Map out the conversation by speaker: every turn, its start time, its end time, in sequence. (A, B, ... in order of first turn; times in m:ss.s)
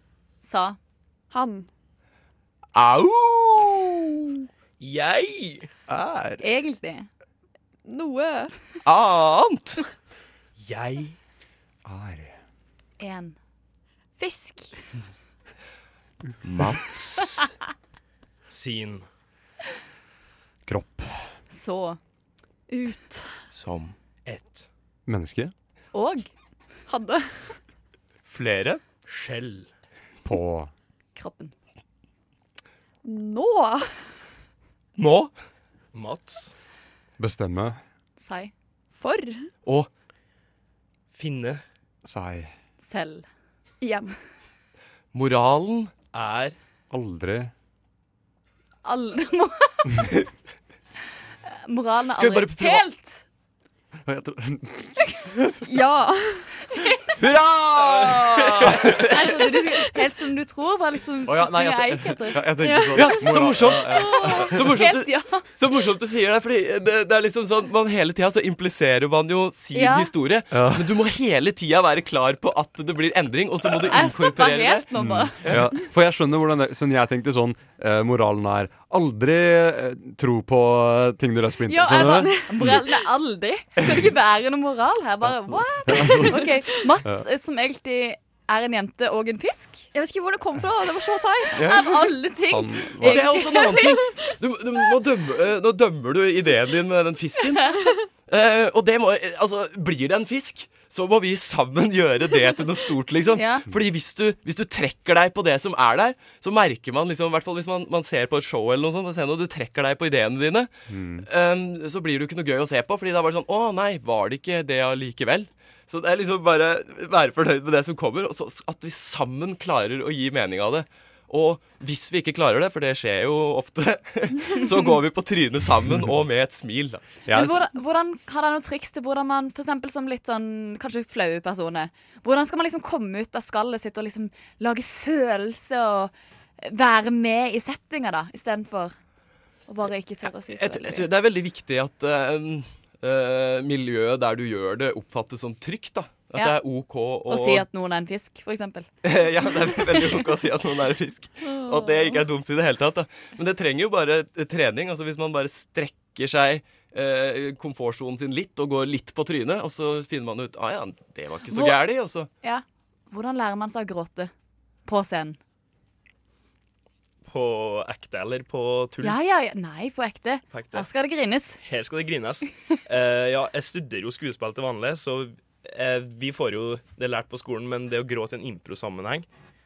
0:00.4-0:00.8 A
0:01.3-0:01.7 B
0:02.8-0:04.3 C
0:04.8-0:05.7 D
0:05.9-0:06.4 E
0:06.4-0:07.1 A
0:07.9-0:08.8 B
0:08.9-0:09.8 C
0:10.6-0:11.2 D
0:11.8-0:12.4 E
0:13.0-0:13.4 A
0:14.2-0:14.8 B
0:16.4-0:17.5 C
0:18.5-0:19.0 D
0:20.7-0:21.3 E
0:21.5-0:22.0 A
0:22.7-0:23.3 B
0:23.5-0:24.0 C
0:24.3-0:24.7 D
0:25.1-0:25.5 E
0:25.9-0:26.3 A
0:26.9-0:27.6 B
0:28.3-0:28.8 C
0:29.1-0:29.7 D
0:30.2-0:30.7 E
0:31.2-0:31.5 A
0:33.0-0:33.9 B
0:35.0-0:35.3 C
0:35.9-0:36.5 D
0:37.2-0:37.8 E
0:38.2-0:38.5 A
0:38.9-0:39.5 B
0:41.1-0:41.6 D
0:42.0-0:42.5 E
0:42.8-0:43.3 A
0:43.8-0:44.2 B
0:45.1-0:45.9 C
0:46.1-0:46.6 D
0:46.9-0:47.5 E
0:48.8-0:50.1 A
0:51.5-0:53.2 A
0:52.2-0:52.8 C
0:54.1-0:55.4 E
0:55.6-0:56.6 B
0:56.7-0:57.1 A
0:57.2-0:59.1 E
0:57.8-0:59.1 C
0:59.0-1:02.4 A
1:01.3-1:04.9 E
1:02.6-1:03.2 B
1:03.0-1:14.9 C
1:03.9-1:05.5 A
1:09.7-1:10.1 A
1:10.5-1:11.0 E
1:13.8-1:15.4 A
1:15.0-1:22.8 E
1:21.7-1:29.9 A
1:21.9-1:22.6 B
1:25.9-1:26.4 E
1:29.9-1:31.8 B
1:31.5-1:34.0 A
1:31.6-1:31.9 C
1:32.5-1:33.4 E
1:33.0-2:07.0 C
1:43.3-1:43.6 A
1:50.9-1:51.3 E
2:07.3-2:07.6 E
2:07.3-2:18.9 A
2:19.7-2:21.1 A
2:20.5-2:27.7 C
2:27.3-2:28.9 A
2:29.0-2:42.3 C
2:29.9-2:30.2 A
2:41.5-2:41.8 A
2:42.4-2:44.3 A
2:44.9-2:45.4 A
2:47.3-2:49.2 D
2:49.0-2:51.6 A
2:50.5-2:50.9 D
2:51.6-2:59.3 D